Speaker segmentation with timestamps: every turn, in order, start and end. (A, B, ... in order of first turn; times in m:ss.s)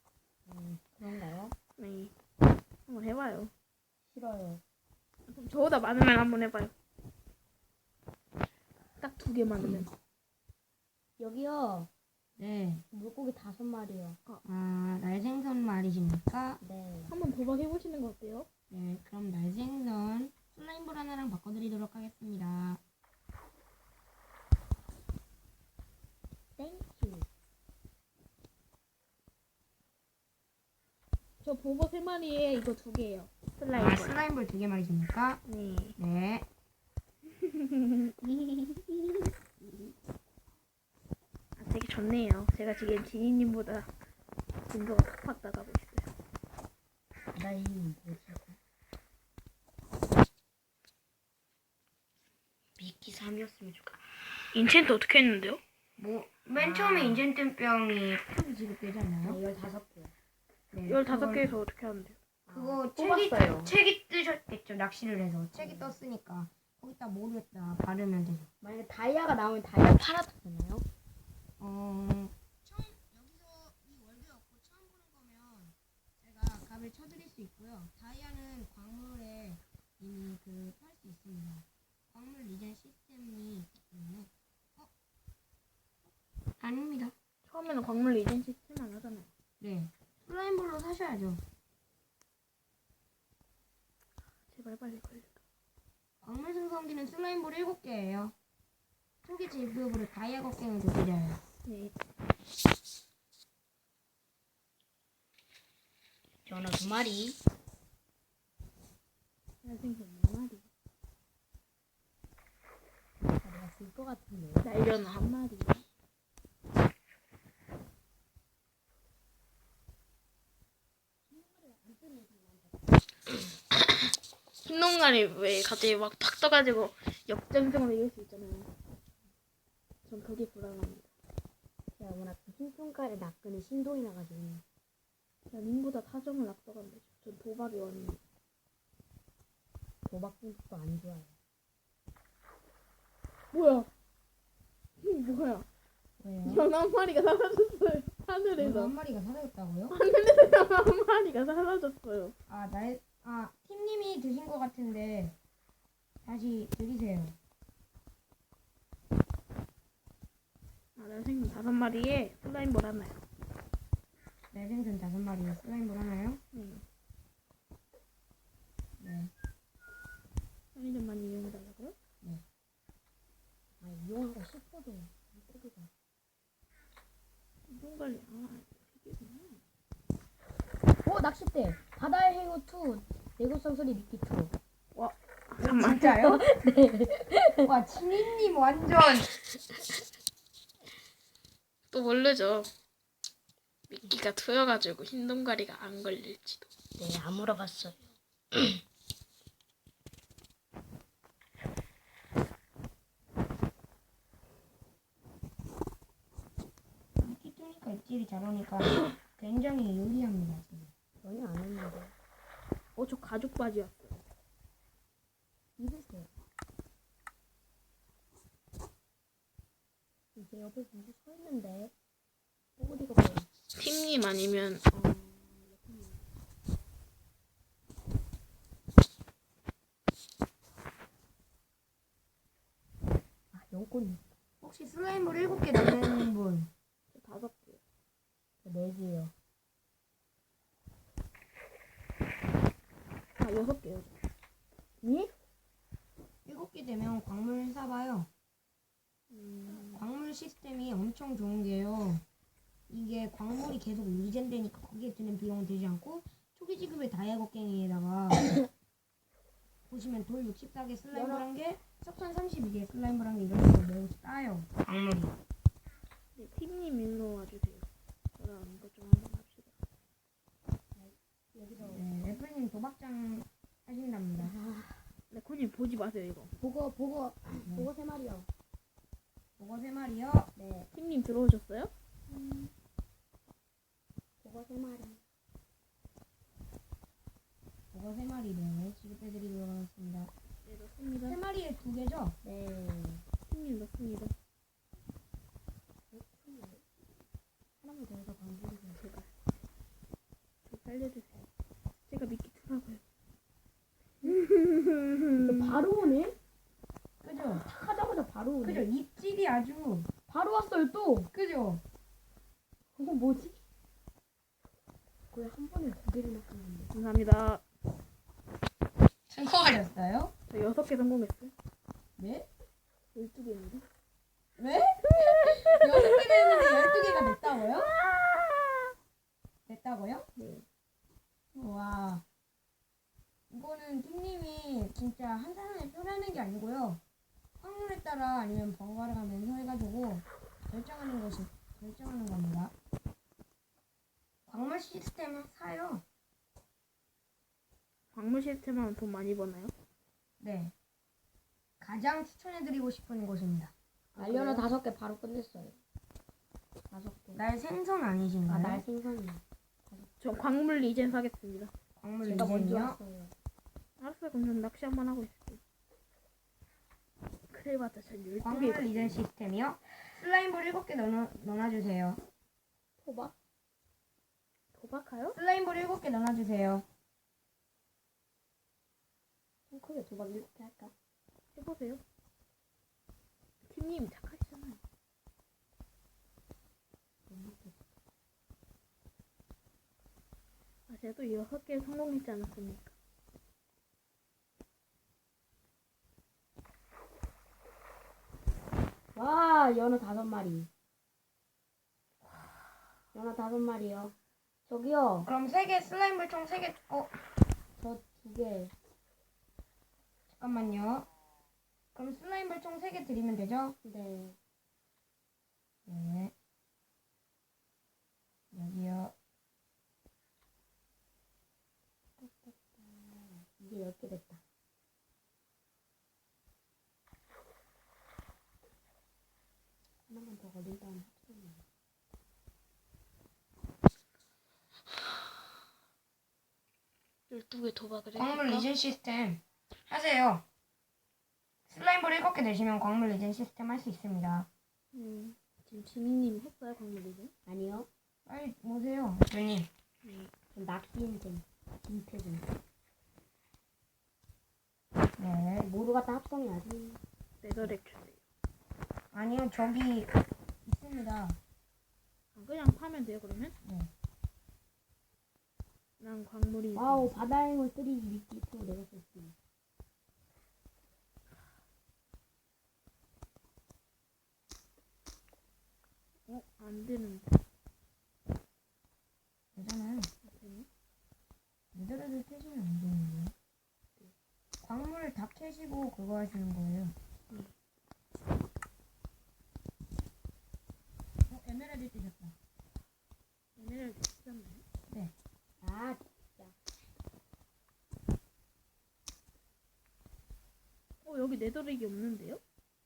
0:00.5-0:01.6 A
0:01.8-0:02.1 B
0:02.9-0:03.5 B
0:04.1-0:04.6 A
0:05.3-0:06.7 B
0:09.0-0:09.9 B
0:11.2-0:11.9 A
0:12.4-0:12.8 C
0:12.9-0:14.2 A
0:14.4-0:16.6 C
0:16.6-0:17.1 A
0:17.1-0:18.5 B
0:18.7-0:22.8 C
0:26.6-0:27.3 A
0:31.4-0:34.2 B
0:33.7-0:35.4 C
0:35.5-0:36.0 B
0:36.0-0:36.5 C
0:37.4-0:39.3 B
0:41.6-0:43.9 B
0:44.7-0:46.1 B
0:47.3-0:48.6 A
0:52.8-0:54.0 A
0:54.5-0:55.6 B
0:56.0-0:59.4 C
0:56.6-0:57.2 A
0:59.2-1:00.1 A
1:00.7-1:01.5 C
1:00.8-1:02.2 B
1:02.5-1:03.7 A
1:02.5-1:08.5 C
1:05.6-1:05.9 A
1:08.6-1:10.8 A
1:11.6-1:24.9 C
1:26.6-1:27.1 C
1:27.5-1:29.3 B
1:29.6-1:31.4 C
1:34.5-1:35.4 B
1:36.2-1:38.3 C
1:39.2-1:41.4 C
1:41.6-1:41.9 B
1:46.4-1:47.4 A
1:49.6-1:50.7 B
1:53.4-1:54.7 A
1:54.6-1:55.8 B
2:01.3-2:02.9 A
2:04.6-2:08.7 B
2:10.0-2:11.1 B
2:12.0-2:14.6 A
2:15.5-2:18.2 B
2:20.0-2:21.3 A
2:23.5-2:23.9 B
2:25.0-2:25.6 B
2:26.2-2:26.7 C
2:26.4-2:28.9 B
2:28.6-2:30.0 C
2:29.9-2:32.3 B
2:32.5-2:35.3 C
2:36.2-2:37.4 C
2:41.0-2:43.2 B
2:44.5-2:46.4 C
2:46.5-2:46.8 B
2:49.0-2:49.3 C
2:50.7-2:52.0 B
2:53.8-2:55.9 A
2:57.7-2:59.6 B
3:01.0-3:04.5 A
3:04.9-3:06.1 B
3:05.6-3:06.4 C
3:06.0-3:07.7 A
3:07.6-3:09.4 C
3:11.9-3:12.7 B
3:13.9-3:16.7 B
3:17.0-3:18.0 A
3:27.2-3:30.9 C
3:31.2-3:32.1 A
3:33.0-3:34.2 B
3:35.8-3:36.3 A
3:40.3-3:41.9 A
3:42.8-3:43.5 A
3:43.7-3:44.8 B
3:44.9-3:46.3 A
3:53.5-3:54.2 A
3:54.6-3:56.7 C
3:57.1-3:57.8 B
3:58.6-3:59.3 A
4:03.4-4:04.1 B
4:05.0-4:05.3 A
4:06.4-4:08.3 C
4:09.3-4:10.0 B
4:09.8-4:12.2 C
4:12.9-4:18.5 C
4:19.9-4:25.3 C
4:21.1-4:21.4 A
4:26.3-4:29.7 B
4:31.0-4:32.0 A
4:31.8-4:34.5 C
4:34.4-4:35.0 A
4:35.3-4:36.5 B
4:36.6-4:38.5 A
4:39.6-4:40.5 C
4:40.6-4:40.9 A
4:40.9-4:41.9 B
4:44.4-4:45.2 A
4:47.9-4:50.3 C
4:50.6-4:51.4 B
4:51.2-4:52.4 C
4:52.4-4:53.2 A
4:53.5-4:54.3 B
4:56.1-4:56.8 A
4:57.8-4:59.1 A
5:00.6-5:01.5 B
5:02.1-5:03.0 B
5:04.2-5:05.8 B
5:05.4-5:06.4 A
5:07.2-5:07.7 C
5:07.6-5:08.9 A
5:08.6-5:10.1 C
5:10.3-5:11.3 A
5:11.3-5:11.8 C
5:13.0-5:13.6 A
5:15.3-5:16.9 A
5:16.9-5:17.6 B
5:19.3-5:20.3 C
5:20.5-5:21.5 B
5:22.2-5:22.5 C
5:23.1-5:23.8 B
5:24.6-5:27.9 C
5:25.2-5:28.8 B
5:29.7-5:30.3 C
5:30.4-5:30.6 B
5:31.5-5:32.2 C
5:33.5-5:37.0 C
5:37.6-5:42.7 C
5:44.5-5:46.0 C
5:48.1-5:49.7 B
5:50.4-5:50.7 C
5:51.8-5:53.7 C
5:54.1-5:54.6 B
5:54.2-5:55.8 A
5:56.9-5:57.4 A
5:57.3-5:58.8 C
5:58.5-6:00.1 A
6:00.2-6:01.7 B
6:02.0-6:03.0 C
6:02.2-6:03.3 A
6:04.0-6:05.6 B
6:07.5-6:09.2 B
6:08.4-6:12.2 C
6:13.0-6:13.3 A
6:14.7-6:15.4 B
6:15.3-6:16.8 C
6:19.7-6:20.9 A
6:21.5-6:22.0 B
6:23.6-6:24.8 B
6:27.3-6:27.8 A
6:30.9-6:32.9 B
6:39.1-6:40.7 A
6:43.1-6:44.1 A
6:44.7-6:45.3 A
6:45.2-6:47.1 C
6:47.8-6:48.7 A
6:50.3-6:51.1 C
6:51.9-6:53.8 C
6:53.8-6:54.4 A
6:55.8-6:56.3 C
6:58.5-6:59.1 C
7:02.2-7:04.4 A
7:10.1-7:11.6 A
7:17.3-7:18.7 B
7:18.1-7:20.4 C
7:21.7-7:24.5 C
7:24.9-7:27.3 B
7:27.5-7:27.9 A
7:28.2-7:29.7 C
7:30.0-7:30.3 B
7:30.5-7:32.5 A
7:35.2-7:35.7 C
7:35.6-7:37.0 A
7:37.4-7:38.2 B
7:39.1-7:40.1 C
7:40.6-7:41.4 C
7:42.3-7:43.5 B
7:43.6-7:43.9 C
7:46.0-7:47.1 B
7:46.7-7:49.3 A
7:56.3-7:57.4 B
7:59.5-8:00.1 C
8:00.2-8:00.7 B
8:01.7-8:03.3 C
8:04.6-8:06.9 C
8:11.3-8:12.3 C
8:13.6-8:14.6 B
8:15.6-8:16.5 A
8:21.0-8:22.4 B